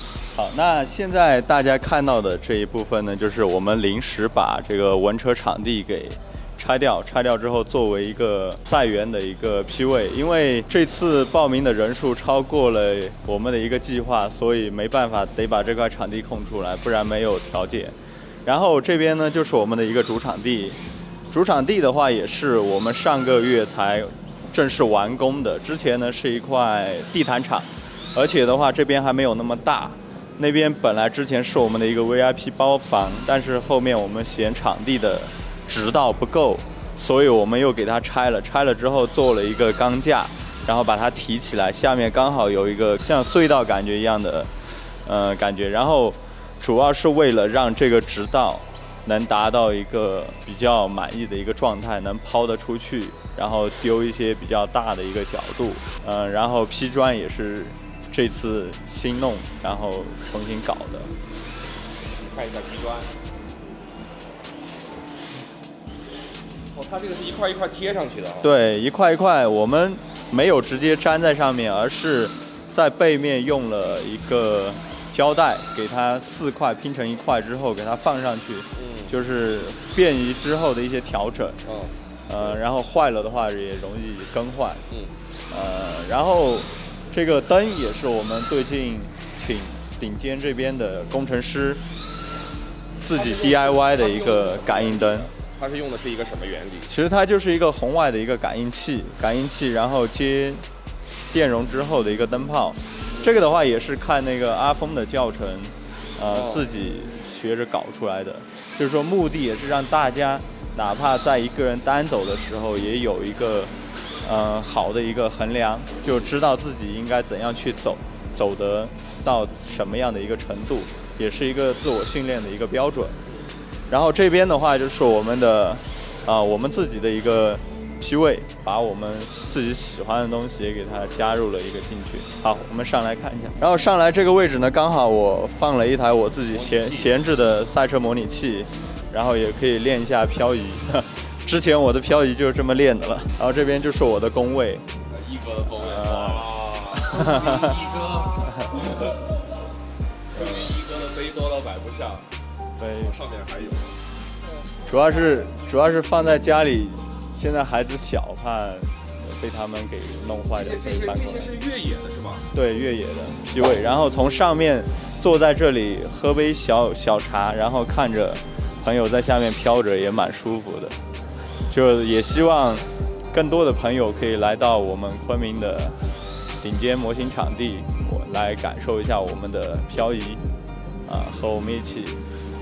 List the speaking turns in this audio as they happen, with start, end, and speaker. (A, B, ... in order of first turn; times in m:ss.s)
0:00.3-0:44.5 A
0:45.0-1:01.1 A
1:02.2-1:03.2 B
1:06.7-1:08.5 B
1:08.4-1:21.6 A
1:18.8-1:19.1 B
1:21.7-1:22.6 B
1:22.3-1:24.8 A
1:24.9-1:25.2 B
1:25.5-1:31.8 A
1:33.0-1:35.3 A
1:33.2-1:36.9 B
1:36.9-1:40.6 A
1:41.3-2:03.2 A
1:43.1-1:43.4 B
1:46.3-1:46.7 B
2:03.9-2:24.8 A
2:16.5-2:17.1 B
2:25.1-2:29.2 B
2:25.9-2:26.5 A
2:27.1-2:27.8 A
2:30.3-2:32.3 B
2:32.8-2:33.2 A
2:33.0-2:34.0 B
2:34.8-2:41.5 A
2:40.6-2:42.5 B
2:42.5-2:51.0 A
2:51.7-2:56.0 A
2:56.6-3:00.4 A
3:01.1-3:02.2 A